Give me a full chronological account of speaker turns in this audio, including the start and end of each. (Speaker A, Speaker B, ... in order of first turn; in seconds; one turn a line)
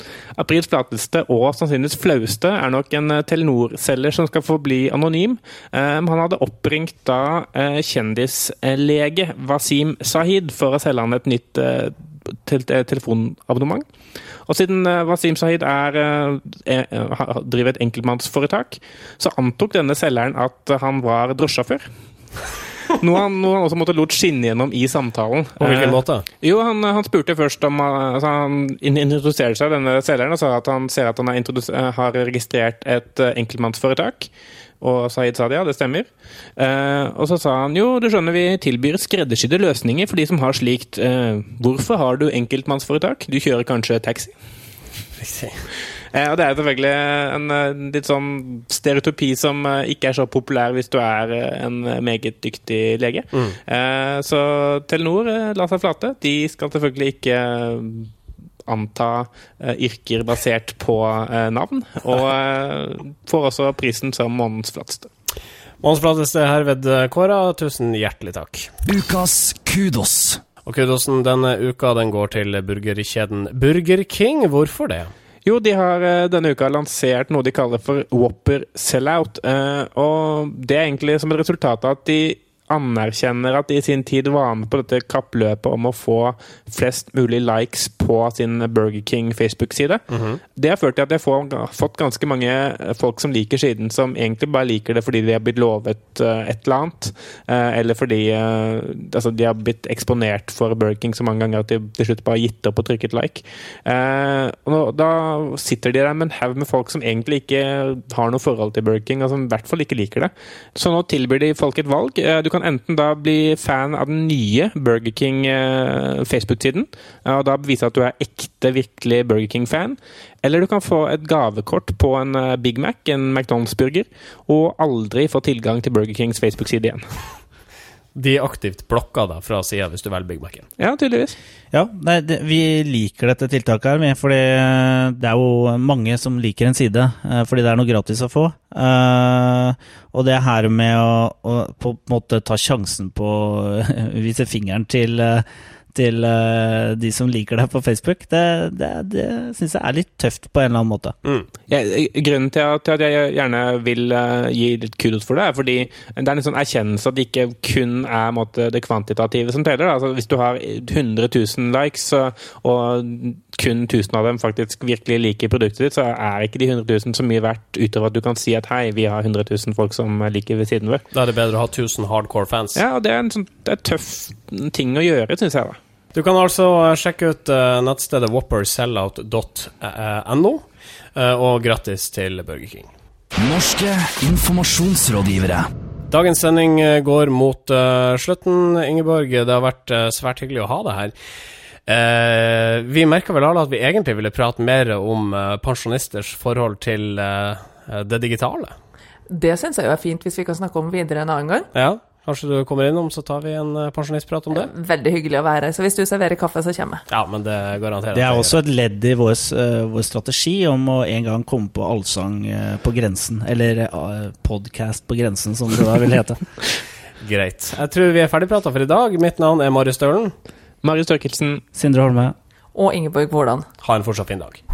Speaker A: 0.4-13.8
Speaker A: 14.4-21.8
Speaker A: 22.8-34.3
Speaker B: 25.6-26.2
Speaker A: 34.8-44.3
Speaker B: 45.2-45.6
Speaker A: 46.1-58.1
Speaker A: 58.6-65.1
Speaker B: 65.8-68.7
Speaker C: 68.8-70.4
Speaker B: 70.6-75.1
Speaker A: 75.4-90.0
Speaker B: 90.1-90.4
Speaker A: 90.5-127.0
Speaker B: 128.1-130.7
Speaker A: 130.8-131.4
Speaker D: 131.7-151.2
Speaker A: 151.7-171.0
Speaker B: 171.1-172.8
Speaker A: 172.7-175.8
Speaker B: 176.1-182.9
Speaker C: 183.3-185.7
Speaker B: 186.1-191.1
Speaker B: 191.9-198.7
Speaker E: 199.3-201.7
Speaker B: 201.7-204.7
Speaker E: 204.5-207.0
Speaker B: 207.1-208.5
Speaker D: 208.1-216.5
Speaker B: 217.2-220.3
Speaker A: 220.8-221.6
Speaker D: 221.7-222.3
Speaker E: 222.7-223.7
Speaker B: 223.8-224.6